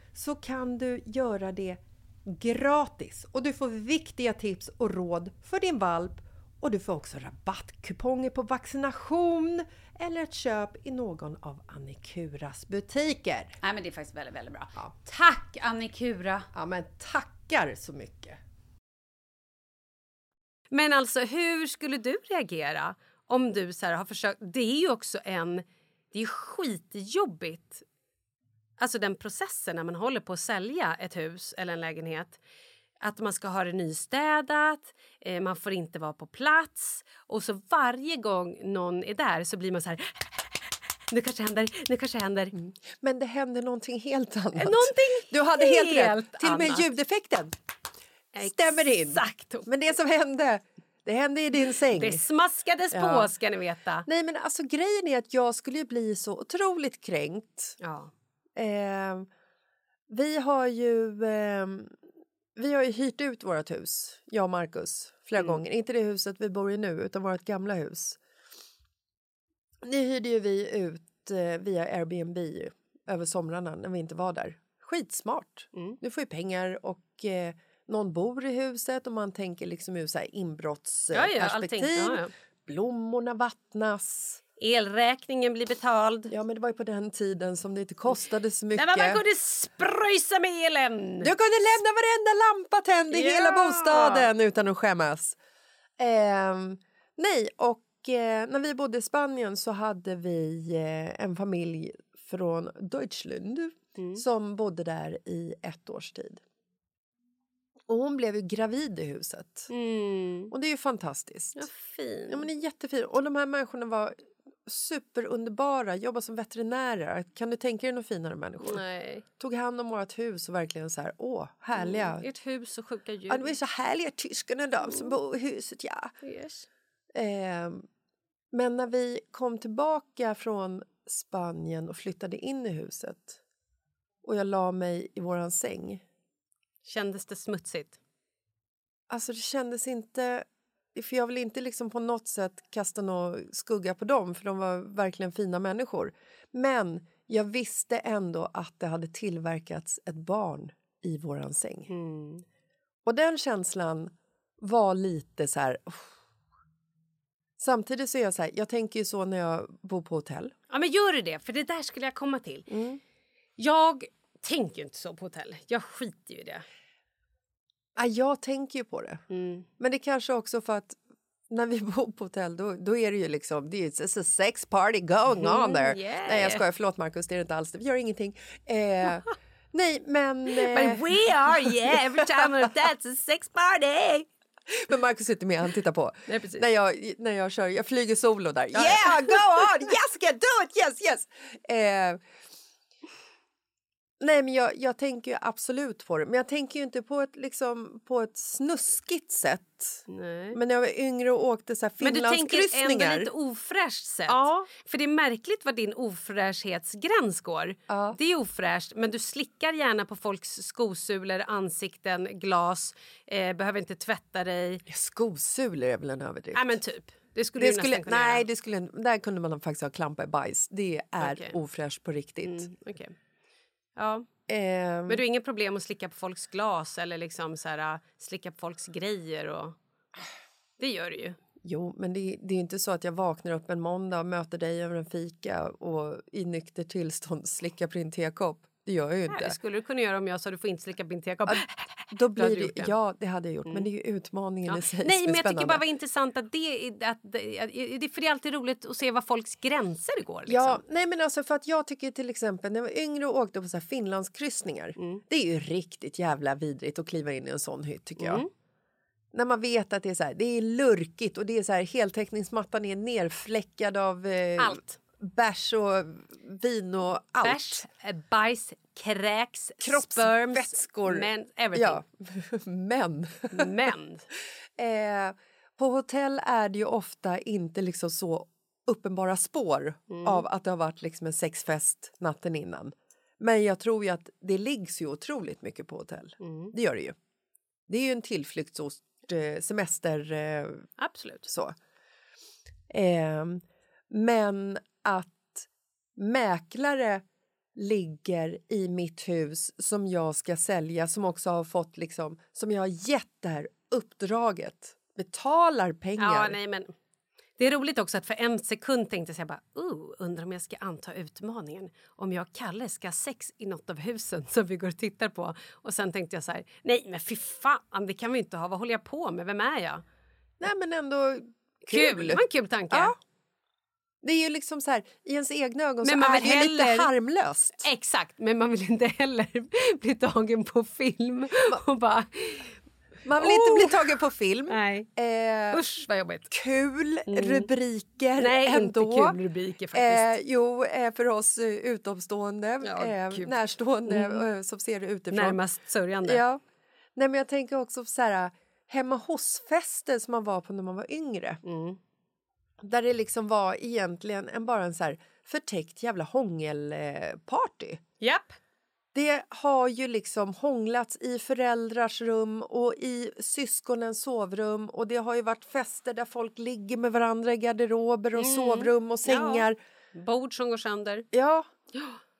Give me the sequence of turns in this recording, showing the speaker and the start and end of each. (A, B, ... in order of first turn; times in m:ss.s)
0:00.1-0:13.6 A
0:13.6-0:16.5 B
0:16.5-0:18.4 A
0:20.7-0:27.8 C
0:28.8-0:32.4 C
0:33.0-0:40.6 C
0:41.1-0:42.6 C
0:42.6-0:47.5 A
0:44.6-0:46.9 C
0:48.3-0:49.7 C
0:48.4-0:52.2 A
0:51.9-0:54.1 C
0:52.9-0:53.3 A
0:54.1-0:57.8 A
0:57.8-0:58.1 C
0:58.6-0:59.3 A
1:00.1-1:02.0 A
1:02.6-1:08.2 A
1:09.8-1:24.4 A
1:21.1-1:22.3 C
1:24.6-1:26.3 C
1:26.3-1:29.2 A
1:28.7-1:31.3 C
1:31.2-1:35.4 A
1:33.1-1:34.3 C
1:36.0-1:46.4 A
1:44.0-1:44.2 C
1:47.9-1:49.7 A
1:49.7-1:50.5 C
1:50.5-1:51.7 A
1:51.6-1:52.5 C
1:52.3-1:58.8 A
1:58.6-1:59.2 C
1:59.4-2:02.2 A
2:01.8-2:03.5 C
2:03.3-2:06.1 A
2:06.2-2:06.7 C
2:07.1-2:07.8 A
2:08.5-2:13.4 A
2:14.2-2:16.0 A
2:16.8-2:18.0 C
2:19.1-2:31.9 A
2:31.9-2:32.4 C
2:33.0-2:36.1 A
2:37.6-2:40.5 A
2:40.7-2:42.7 C
2:42.7-2:43.0 A
2:43.6-2:46.6 C
2:48.0-2:49.2 A
2:49.3-2:49.7 C
2:49.8-2:51.0 A
2:51.5-3:02.7 A
2:55.3-2:56.6 C
3:00.5-3:04.3 C
3:04.7-3:12.2 A
3:06.3-3:06.6 C
3:08.7-3:09.7 C
3:14.2-3:23.3 A
3:20.1-3:20.6 C
3:22.0-3:34.8 C
3:24.3-3:24.7 A
3:27.9-3:28.2 A
3:34.9-3:36.8 A
3:36.5-3:38.4 C
3:37.6-3:42.7 A
3:41.2-3:41.6 C
3:42.4-3:43.2 C
3:44.0-3:44.3 C
3:44.5-3:45.2 A
3:45.1-3:49.8 C
3:50.8-3:51.4 C
3:51.6-3:59.6 A
3:59.3-4:02.9 C
4:01.5-4:05.8 A
4:04.7-4:10.8 C
4:10.5-4:18.4 A
4:15.0-4:15.2 C
4:18.2-4:18.5 C
4:19.3-4:27.8 A
4:24.6-4:25.0 C
4:27.4-4:32.0 C
4:29.8-4:33.7 A
4:33.5-4:34.2 C
4:34.8-4:47.2 A
4:40.1-4:40.4 C
4:46.4-4:46.7 C
4:47.9-4:50.9 A
4:51.0-4:51.5 C
4:51.5-4:51.8 A
4:52.9-4:57.2 A
4:57.8-5:06.6 A
5:06.2-5:06.9 C
5:07.6-5:20.0 C
5:20.6-5:23.2 A
5:21.9-5:23.2 C
5:24.2-5:27.9 A
5:26.0-5:27.1 C
5:27.8-5:32.8 C
5:33.2-5:35.8 A
5:33.4-5:34.1 C
5:34.7-5:35.1 C
5:35.7-5:36.5 C
5:36.5-5:39.4 A
5:37.3-5:37.7 C
5:38.4-5:40.3 C
5:39.9-5:45.6 A
5:42.8-5:43.5 C
5:44.1-5:44.5 C
5:45.3-5:46.4 C
5:46.2-5:46.6 A
5:47.2-5:51.6 A
5:51.6-5:52.0 C
5:52.8-5:58.0 A
5:58.2-5:58.6 C
5:59.1-6:09.8 A
6:08.4-6:11.3 C
6:11.3-6:11.7 A
6:11.9-6:12.2 C